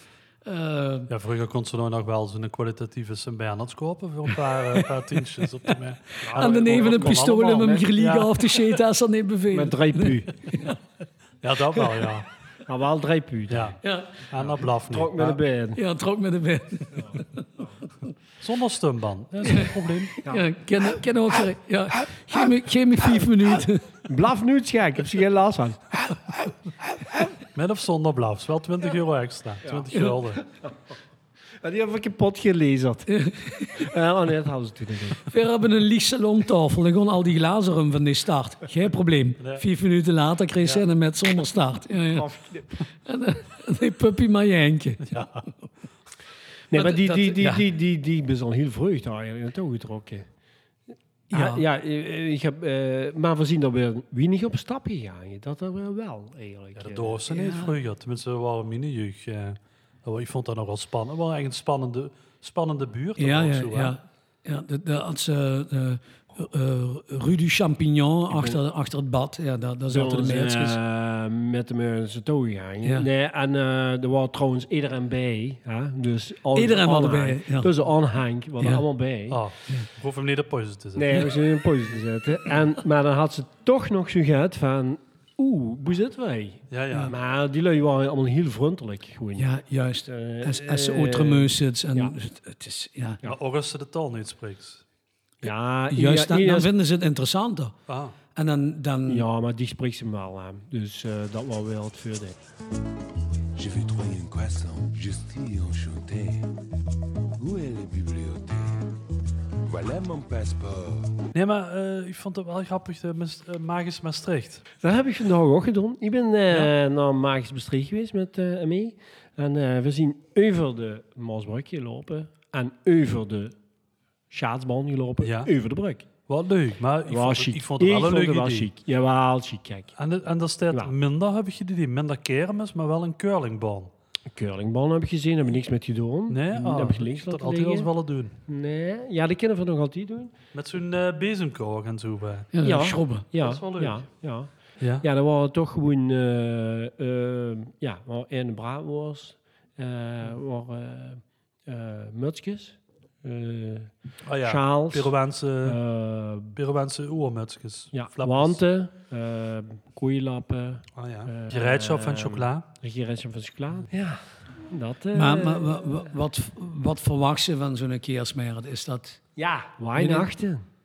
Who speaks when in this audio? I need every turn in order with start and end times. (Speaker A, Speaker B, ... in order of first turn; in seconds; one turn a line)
Speaker A: 0.4-1.1
Speaker B: 1.1-8.8
Speaker C: 6.2-7.8
Speaker A: 6.3-10.8
Speaker C: 9.5-10.3
Speaker B: 11.4-12.3
Speaker C: 12.7-13.8
Speaker B: 13.5-13.8
Speaker A: 13.8-14.2
Speaker B: 14.3-15.4
Speaker C: 14.4-15.8
Speaker A: 15.7-17.7
Speaker B: 18.4-20.2
Speaker A: 19.4-19.7
Speaker A: 20.2-23.9
Speaker C: 24.1-25.8
Speaker B: 27.5-30.4
Speaker C: 31.6-33.1
Speaker A: 33.1-33.8
Speaker C: 33.7-35.2
Speaker A: 35.3-42.3
Speaker B: 39.4-39.6
Speaker C: 42.1-42.7
Speaker A: 42.9-45.1
Speaker B: 45.0-45.5
Speaker C: 46.7-50.3
Speaker A: 46.7-47.6
Speaker A: 51.3-51.6
Speaker C: 51.3-57.2
Speaker B: 56.8-64.0
Speaker A: 57.3-57.8
Speaker A: 63.2-70.8
Speaker C: 69.9-79.4
Speaker A: 76.5-77.7
Speaker A: 78.6-78.8
Speaker B: 79.3-81.3
Speaker C: 81.0-89.5
Speaker B: 86.7-87.1
Speaker A: 89.4-93.2
Speaker C: 90.0-92.1
Speaker B: 93.2-94.8
Speaker C: 95.4-96.7
Speaker A: 95.9-97.8
Speaker B: 97.9-98.2
Speaker A: 98.3-99.2
Speaker C: 99.1-102.3
Speaker D: 103.6-106.4
Speaker D: 107.4-108.6
Speaker D: 109.7-111.0
Speaker B: 111.3-114.7
Speaker C: 114.8-123.5
Speaker C: 124.3-126.0
Speaker B: 125.2-125.5
Speaker B: 126.3-128.7
Speaker C: 127.1-129.9
Speaker B: 130.0-133.9
Speaker C: 134.3-137.9
Speaker B: 136.3-138.3
Speaker C: 138.4-140.3
Speaker B: 140.5-142.5
Speaker A: 142.5-143.2
Speaker C: 142.6-156.5
Speaker B: 143.3-144.2
Speaker B: 144.8-145.0
Speaker B: 154.2-155.8
Speaker B: 156.5-158.6
Speaker C: 157.9-166.0
Speaker B: 160.9-162.7
Speaker A: 165.1-169.2
Speaker C: 169.3-170.7
Speaker A: 169.9-170.3